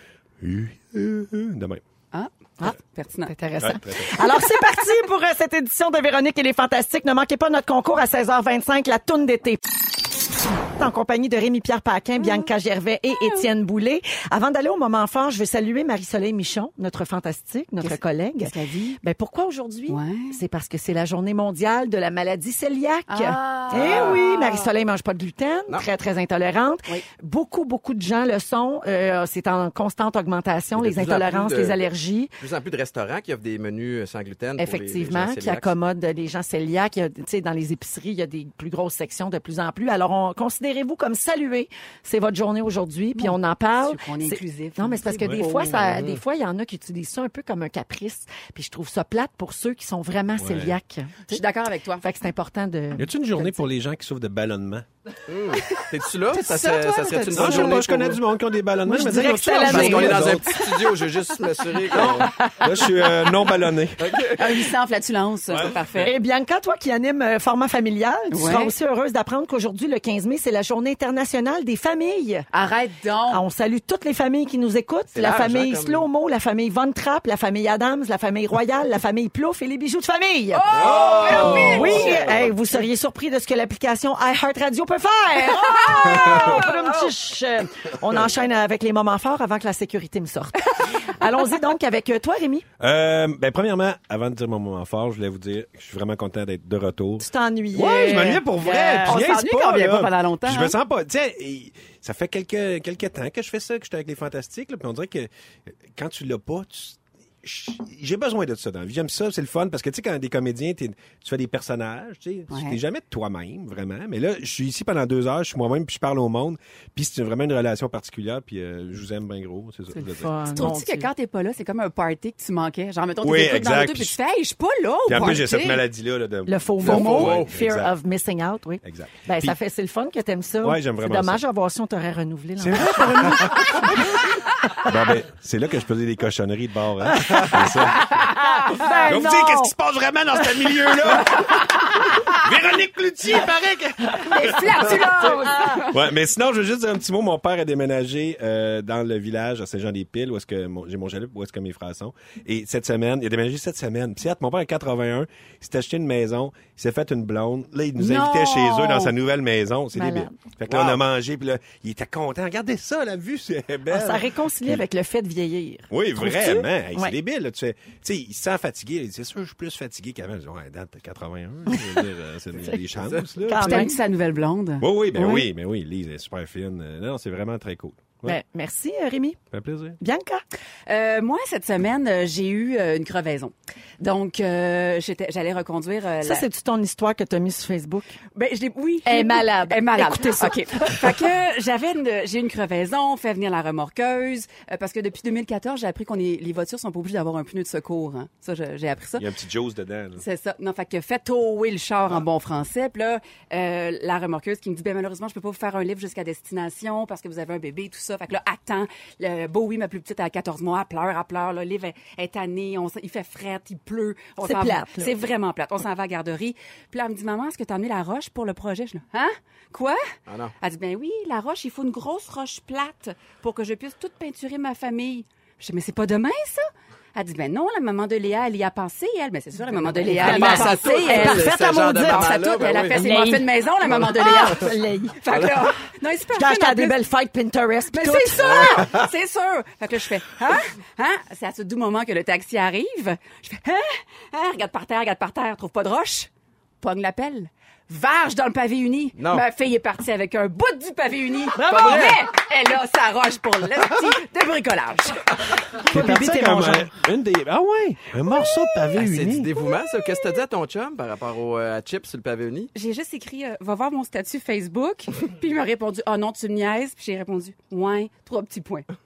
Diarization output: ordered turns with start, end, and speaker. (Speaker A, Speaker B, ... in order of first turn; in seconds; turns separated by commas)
Speaker A: 0.4-1.8, Speaker B: 2.1-3.3, Speaker C: 3.2-9.8, Speaker A: 3.6-4.2, Speaker C: 10.6-32.3, Speaker B: 12.2-12.4, Speaker B: 13.1-13.4, Speaker B: 17.8-19.0, Speaker B: 19.9-20.4, Speaker B: 23.1-24.7, Speaker D: 23.8-24.1, Speaker D: 30.8-31.8, Speaker D: 32.4-35.7, Speaker C: 34.6-51.4, Speaker B: 43.1-46.0, Speaker A: 50.4-50.7, Speaker B: 51.3-52.0, Speaker C: 52.0-53.6, Speaker A: 53.0-54.9, Speaker D: 55.3-58.2, Speaker C: 56.3-57.8, Speaker A: 57.3-60.6, Speaker C: 58.8-60.6, Speaker D: 59.6-62.3, Speaker A: 61.9-64.2, Speaker C: 62.2-63.0, Speaker D: 64.0-64.6, Speaker B: 64.3-66.1, Speaker C: 66.0-72.5, Speaker B: 68.3-68.7, Speaker B: 72.5-73.4, Speaker C: 73.3-92.6, Speaker D: 75.1-76.0, Speaker B: 80.5-82.2, Speaker D: 80.7-82.3, Speaker A: 80.8-82.5, Speaker B: 85.4-87.1, Speaker A: 92.8-105.3, Speaker C: 97.2-99.2, Speaker B: 99.0-100.8, Speaker A: 105.9-120.7, Speaker B: 112.5-112.8, Speaker C: 119.9-121.1, Speaker B: 120.5-125.8, Speaker A: 123.2-124.1, Speaker A: 125.1-127.9, Speaker C: 126.5-134.2, Speaker D: 126.8-127.5, Speaker A: 128.8-129.6, Speaker A: 130.6-131.4, Speaker A: 132.6-138.4, Speaker C: 137.1-139.7, Speaker B: 138.3-139.1, Speaker A: 139.1-145.0, Speaker B: 144.2-145.9, Speaker C: 144.8-145.8, Speaker A: 145.8-164.8, Speaker B: 158.0-159.1, Speaker C: 159.9-160.3, Speaker D: 160.7-161.0, Speaker C: 163.9-167.2, Speaker A: 165.9-173.9, Speaker C: 171.7-172.0, Speaker C: 172.6-172.8, Speaker C: 173.4-173.9, Speaker B: 173.6-175.4, Speaker A: 174.8-178.4, Speaker C: 175.2-175.4, Speaker C: 178.2-179.4, Speaker A: 179.5-180.0, Speaker C: 180.0-180.4, Speaker B: 180.9-186.4, Speaker C: 186.2-188.1, Speaker B: 188.3-199.3, Speaker C: 189.0-191.2, Speaker A: 199.2-200.2, Speaker B: 200.2-220.0, Speaker C: 214.4-215.2, Speaker D: 220.3-220.5, Speaker B: 220.6-231.5, Speaker C: 229.9-235.2, Speaker D: 230.2-233.1, Speaker B: 232.0-237.0, Speaker D: 233.9-234.3, Speaker C: 236.3-238.8, Speaker B: 237.9-246.3, Speaker D: 238.4-239.1, Speaker B: 246.8-255.2, Speaker D: 249.2-249.4, Speaker C: 251.5-252.2, Speaker C: 255.8-256.9, Speaker A: 255.9-259.5, Speaker D: 258.9-262.7, Speaker B: 262.7-268.9